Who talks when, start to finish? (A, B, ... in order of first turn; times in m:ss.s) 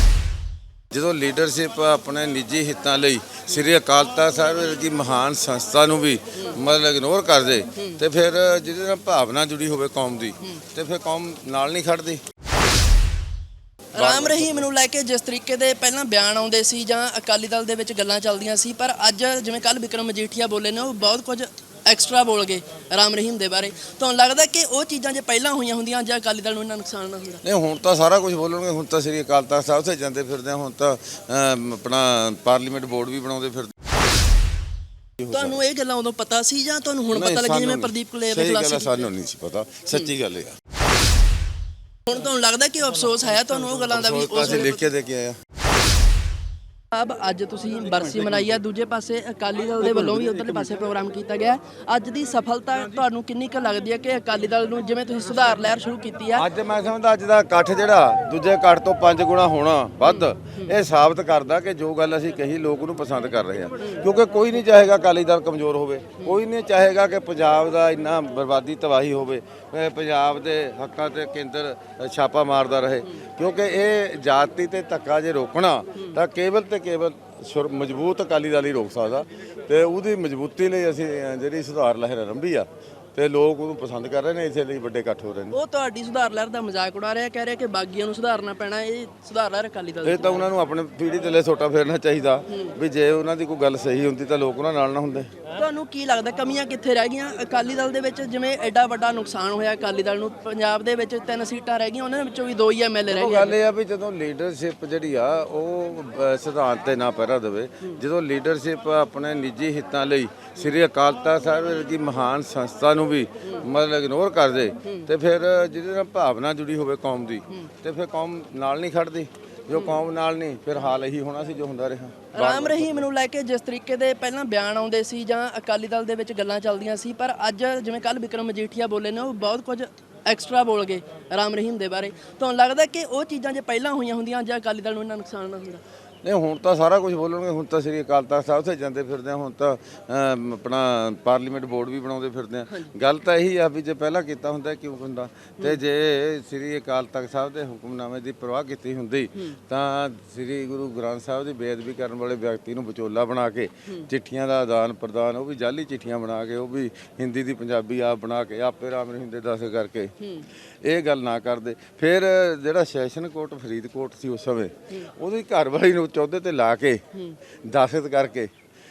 0:00.9-0:12.2 A
0:07.8-0:08.0 B
0:14.0-0:27.4 B
0:14.0-0:14.7 A
0:27.4-0:33.8 A
0:35.2-0:35.6 A
0:35.3-0:39.1 B
0:37.1-0:40.6 A
0:42.1-0:44.9 B
0:43.9-0:45.4 A
0:46.9-0:56.5 B
0:49.8-0:50.7 A
0:56.4-1:25.6 A
1:00.0-1:00.7 B
1:25.5-1:30.5 B
1:30.0-1:35.3 A
1:32.5-1:32.8 B
1:35.5-1:43.6 B
1:43.1-2:03.1 A
2:02.3-2:15.8 B
2:16.2-2:40.1 A
2:40.2-2:40.5 B
2:40.8-2:47.0 A
2:47.6-2:48.5 A